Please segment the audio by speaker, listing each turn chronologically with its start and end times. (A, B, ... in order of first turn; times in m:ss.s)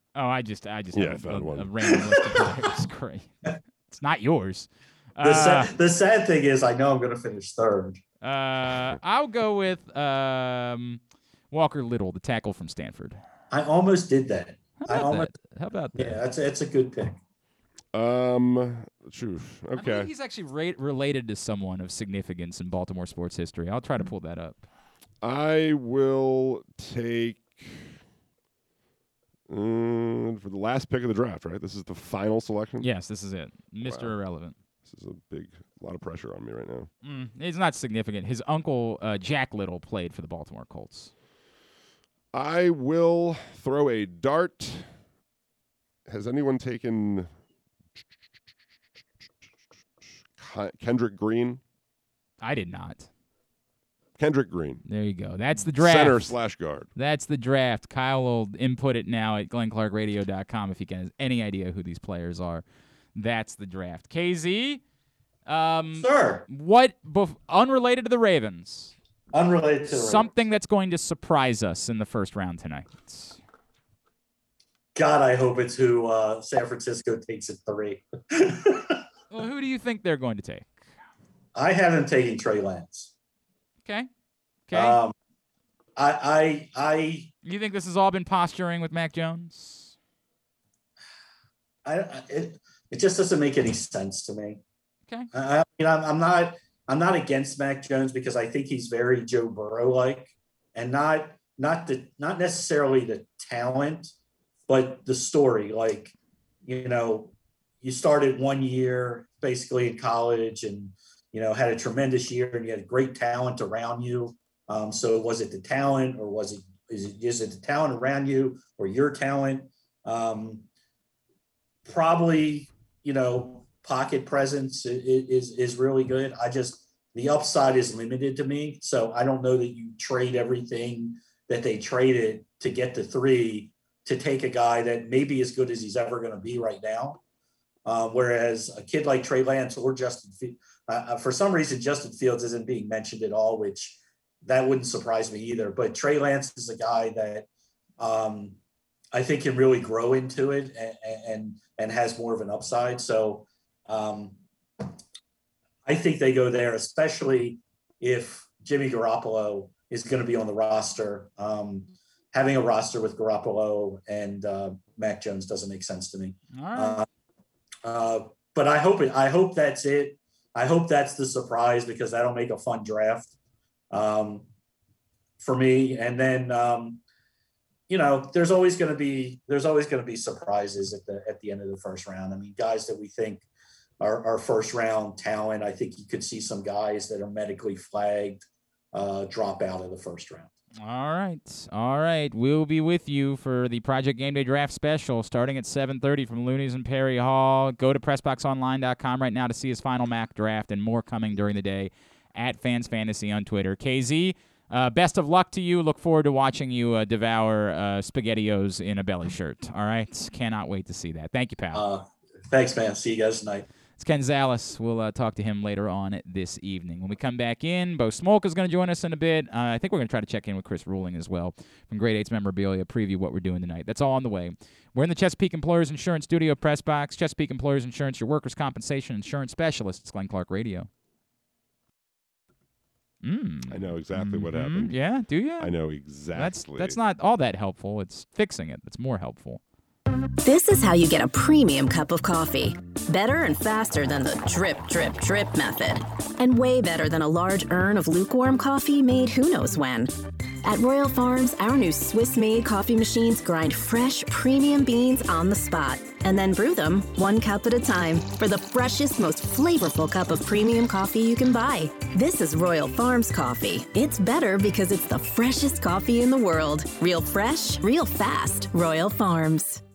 0:00.2-0:05.7 A
0:00.9-0:01.9 B
0:05.2-0:08.0 C
0:08.2-0:11.0 A
0:11.5-0:13.2 A
0:13.5-0:15.3 C
0:14.8-0:16.2 A
0:16.0-0:17.2 C
0:17.9-0:20.1 B
0:19.8-0:24.6 A
0:25.2-0:28.0 B
0:29.5-0:32.9 B
0:32.8-0:34.6 A
0:33.8-0:34.2 B
0:34.8-0:36.9 B
0:37.0-0:41.1 A
0:42.3-0:44.9 B
0:46.1-0:47.3 B
0:50.4-0:51.6 B
0:52.4-0:53.1 A
0:54.2-0:54.8 B
0:54.9-0:56.4 A
0:55.6-0:56.9 B
0:57.0-1:04.8 A
1:05.5-1:08.9 A
1:06.0-1:06.4 C
1:09.3-1:10.3 C
1:09.9-1:13.4 A
1:15.0-1:19.0 C
1:19.3-1:20.7 A
1:21.6-1:23.1 C
1:24.7-1:25.0 A
1:24.7-1:25.1 C
1:26.0-1:27.3 C
1:27.4-1:30.0 A
1:31.8-1:34.6 C
1:35.3-1:44.1 C
1:44.7-1:46.1 C
1:46.6-2:00.6 C
2:01.9-2:17.2 C
2:17.8-2:27.5 C
2:28.0-2:28.6 C
2:29.1-2:34.4 C
2:35.9-2:47.1 C
2:46.5-2:47.0 A
2:47.8-2:53.3 C
2:53.9-2:54.5 C
2:55.4-2:57.0 C
2:57.9-3:03.5 C
3:04.0-3:10.5 C
3:10.8-3:31.8 A
3:31.7-3:33.7 C
3:34.0-3:50.9 A
3:53.2-3:55.7 A
3:53.7-3:55.0 B
3:55.6-3:57.0 B
3:56.3-3:59.6 A
4:00.4-4:29.8 D